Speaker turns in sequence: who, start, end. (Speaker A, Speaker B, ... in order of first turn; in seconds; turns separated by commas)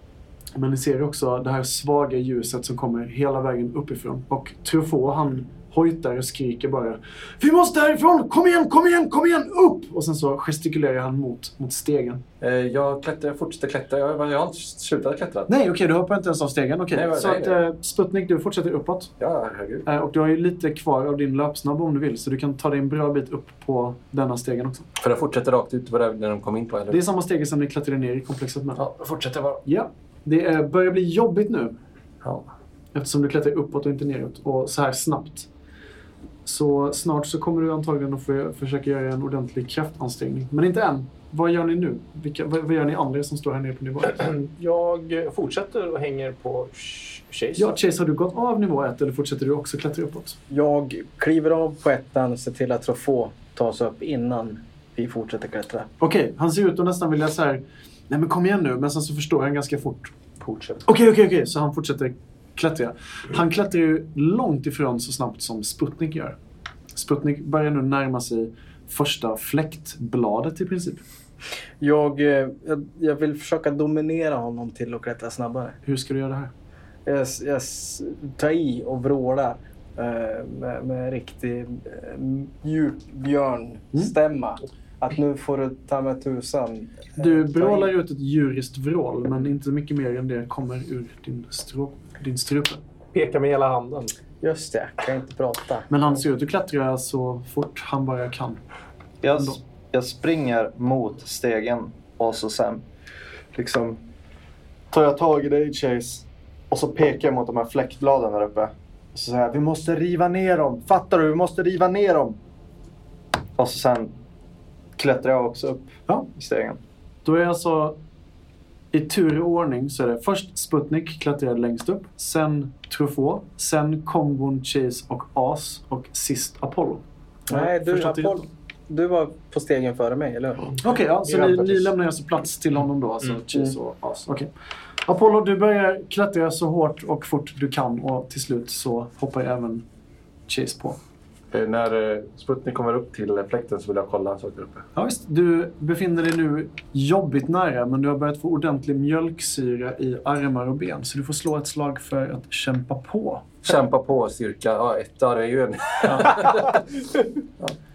Speaker A: 0.6-12.2, Speaker B: 12.4-15.5, Speaker A: 15.5-19.1, Speaker B: 16.9-17.6, Speaker B: 19.2-19.9, Speaker A: 19.9-24.9, Speaker B: 25.0-27.0, Speaker A: 26.9-28.8, Speaker B: 28.8-29.6, Speaker A: 29.6-31.8, Speaker B: 32.2-32.5, Speaker A: 32.9-35.5, Speaker A: 36.5-44.3, Speaker C: 44.2-47.7, Speaker A: 47.6-50.4, Speaker D: 50.5-55.9, Speaker A: 56.0-60.1, Speaker C: 60.4-60.9, Speaker A: 60.9-66.4, Speaker A: 66.9-71.0, Speaker D: 71.8-75.8, Speaker A: 75.8-76.5, Speaker D: 77.1-87.9, Speaker A: 87.2-92.8, Speaker C: 93.1-94.1, Speaker D: 94.4-95.9, Speaker A: 95.9-98.6, Speaker E: 99.2-102.8, Speaker E: 103.5-104.0, Speaker E: 104.9-112.4, Speaker E: 113.6-114.2, Speaker E: 115.0-116.8, Speaker A: 117.2-118.0, Speaker A: 118.9-128.5, Speaker D: 127.5-130.7, Speaker A: 130.8-134.5, Speaker C: 131.1-131.9, Speaker A: 135.1-139.8, Speaker A: 140.5-141.0, Speaker B: 141.5-144.9, Speaker A: 144.9-153.5, Speaker B: 153.6-156.8